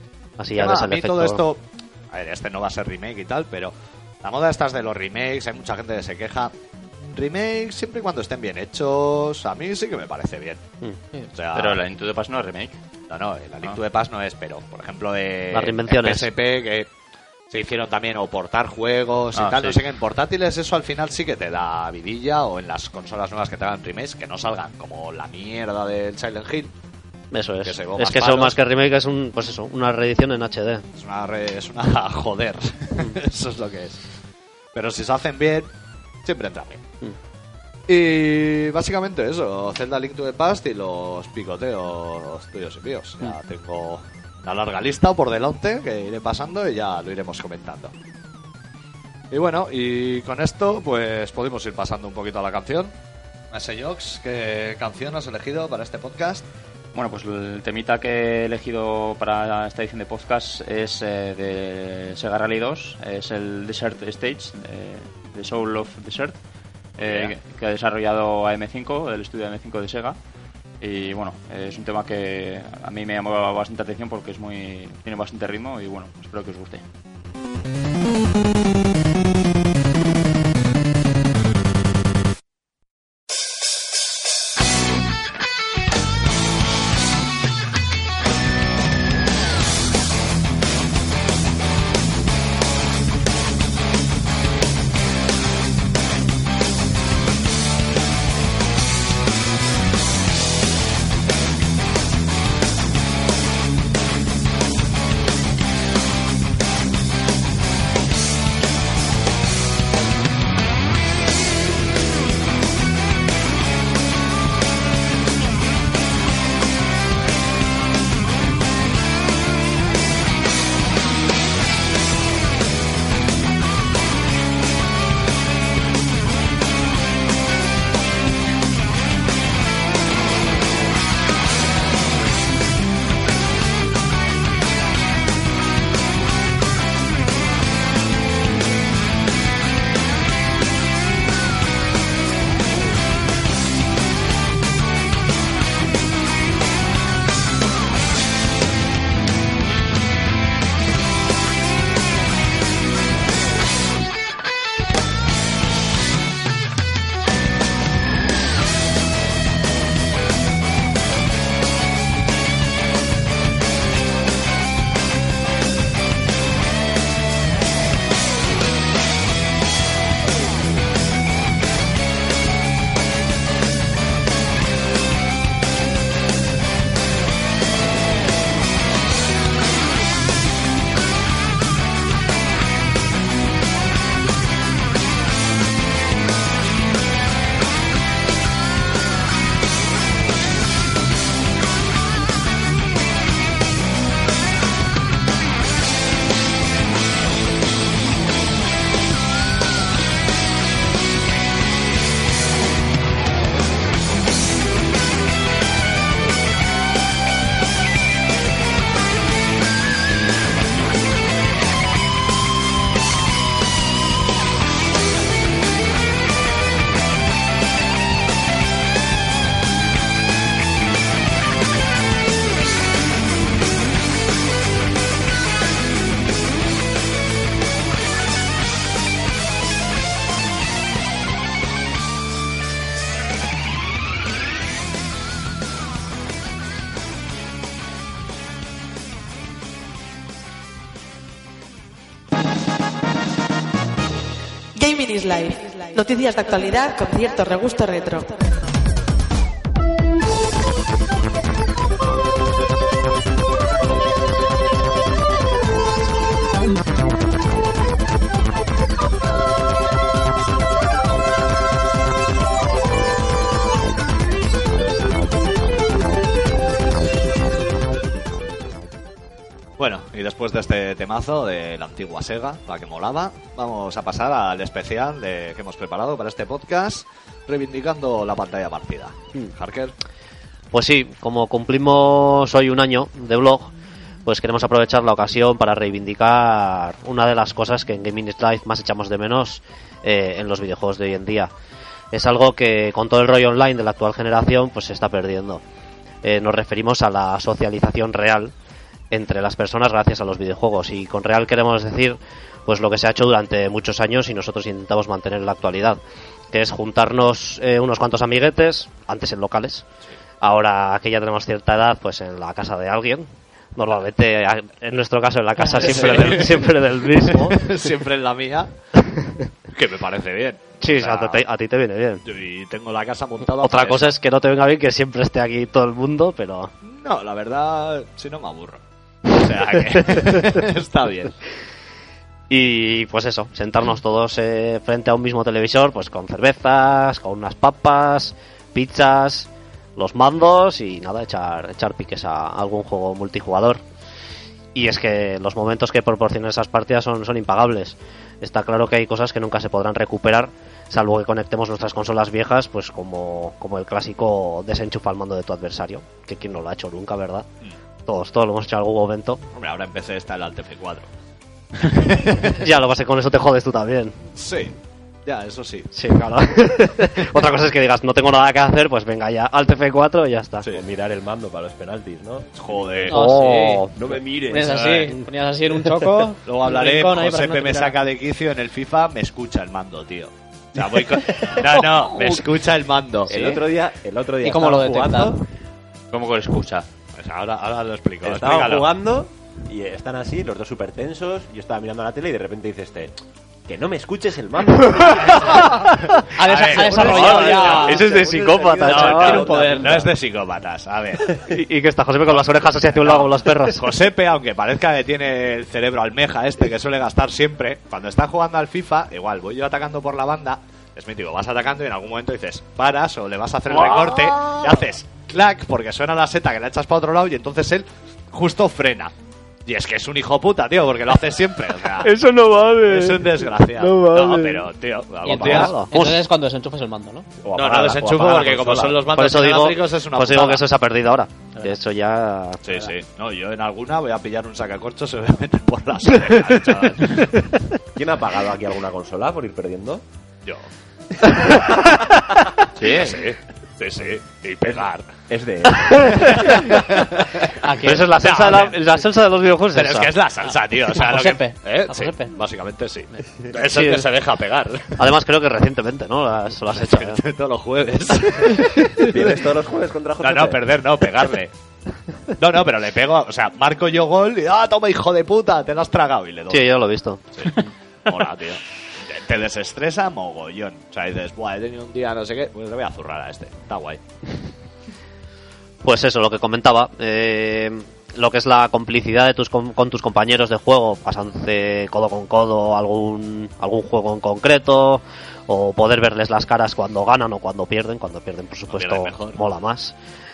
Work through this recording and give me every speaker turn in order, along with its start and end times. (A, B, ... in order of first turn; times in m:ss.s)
0:00.4-0:01.4 A
0:00.5-0:10.6 B
0:11.3-0:11.8 B
0:11.5-0:12.8 C
0:13.1-0:16.9 B
0:15.5-0:16.3 A
0:17.5-0:26.7 B
0:19.3-0:19.8 C
0:27.3-0:30.8 A
0:27.6-0:28.6 B
0:31.0-0:34.0 B
0:34.7-0:35.7 B
0:36.2-0:36.8 B
0:37.9-0:47.9 B
0:49.3-0:52.9 B
0:53.5-0:56.4 B
0:56.9-1:06.4 C
1:07.0-1:10.2 C
1:07.0-1:07.3 B
1:10.8-1:16.8 C
4:04.7-4:08.6 D
4:29.8-4:39.9 B
4:40.7-4:43.7 A
4:44.2-4:51.5 A
4:52.1-4:55.6 A
4:56.2-4:58.5 A
4:59.1-5:06.0 A
5:06.5-5:09.8 A
5:10.4-5:17.8 A
5:15.7-5:16.6 B
5:17.3-5:18.7 B
5:18.9-5:19.5 A
5:19.7-5:21.4 B
5:20.8-5:22.2 A
5:22.2-5:24.1 B
5:23.6-5:26.7 A
5:26.8-5:31.3 B
5:29.9-5:30.4 A
5:32.5-5:43.8 A
5:44.7-5:57.4 A
5:58.0-5:59.4 A
5:59.5-6:01.1 B
6:01.8-6:02.6 B
6:02.5-6:04.2 A
6:04.4-6:05.9 B
6:05.9-6:10.6 A
6:07.2-6:07.4 B
6:10.7-6:13.1 E
6:12.6-6:13.2 B
6:13.1-6:13.9 F
6:13.1-6:14.2 A
6:13.9-6:15.0 E
6:14.5-6:18.0 F
6:16.4-6:23.6 B
6:23.3-6:25.4 E
6:24.4-6:25.4 F
6:26.1-6:26.8 C
6:27.2-6:28.9 B
6:28.2-6:33.1 E
6:33.7-6:35.6 E
6:35.2-6:35.6 B
6:35.4-6:36.2 A
6:36.3-6:38.0 F
6:36.4-6:38.1 B
6:36.6-6:40.1 E
6:36.8-6:39.5 A
6:38.9-6:41.4 B
6:38.9-6:40.0 F
6:41.4-6:43.9 A
6:42.3-6:59.1 B
6:53.9-6:54.6 A
6:59.6-7:02.1 B
7:02.0-7:04.7 A
7:02.8-7:05.8 B
7:05.2-7:07.3 F
7:05.3-7:06.2 A
7:07.4-7:08.9 E
7:07.5-7:10.6 B
7:08.0-7:12.9 A
7:12.6-7:17.4 B
7:17.9-7:20.0 E
7:22.8-7:25.2 B
7:24.7-7:26.6 E
7:25.7-7:26.8 A
7:25.9-7:27.5 B
7:27.6-7:28.2 F
7:27.8-7:30.1 A
7:28.1-7:28.8 B
7:29.7-7:35.0 B
7:30.9-7:32.3 F
7:33.7-7:34.1 A
7:35.0-7:37.2 A
7:36.7-7:39.3 B
7:39.0-7:40.6 E
7:40.2-7:41.5 B
7:42.4-7:46.7 B
7:46.5-7:47.6 A
7:47.4-7:54.0 B
7:55.8-8:09.9 A
8:08.7-8:09.4 B